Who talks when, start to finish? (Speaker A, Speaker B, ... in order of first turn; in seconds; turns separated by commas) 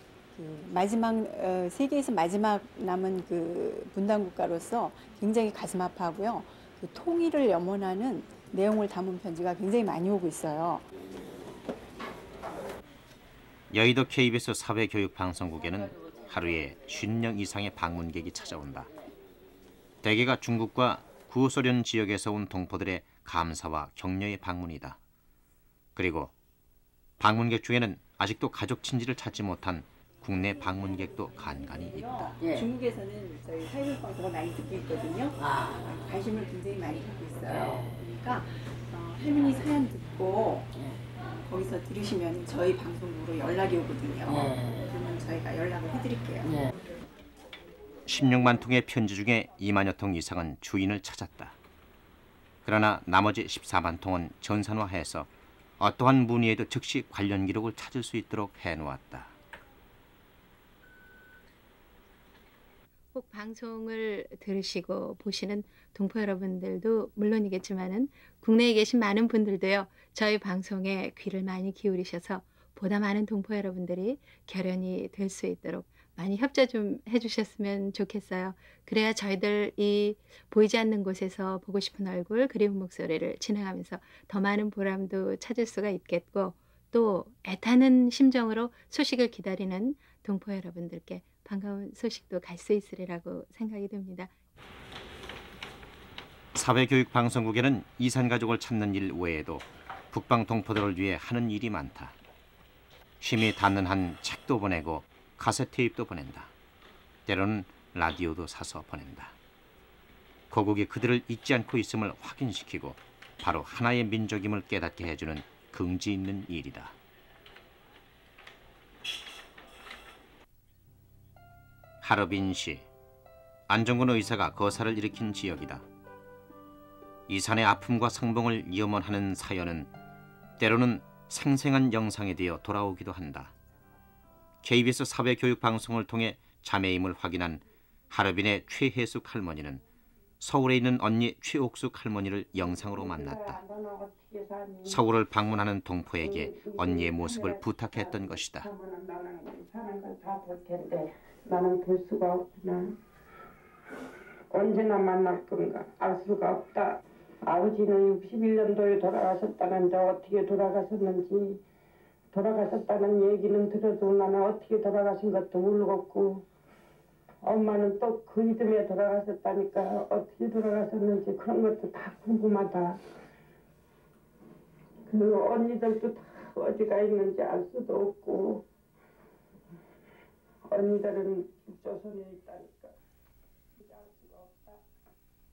Speaker A: 0.3-10.8, Speaker B: 13.7-18.9, Speaker B: 20.0-25.0, Speaker B: 25.9-26.3, Speaker B: 27.2-32.4, Speaker A: 31.7-40.8, Speaker A: 41.4-46.6, Speaker B: 48.0-51.5, Speaker B: 52.6-59.3, Speaker C: 63.1-94.3, Speaker B: 96.5-102.1, Speaker B: 103.2-106.5, Speaker B: 107.2-109.3, Speaker B: 110.5-116.9, Speaker B: 122.0-122.9, Speaker B: 123.7-125.8, Speaker B: 127.3-129.9, Speaker B: 130.6-133.5, Speaker B: 134.6-139.8, Speaker B: 140.4-143.6, Speaker D: 142.6-145.0, Speaker B: 144.9-148.7, Speaker D: 146.2-152.9, Speaker D: 154.5-161.6, Speaker D: 162.3-166.4, Speaker D: 167.4-173.0, Speaker D: 175.1-178.7, Speaker D: 180.7-182.9, Speaker D: 183.8-184.8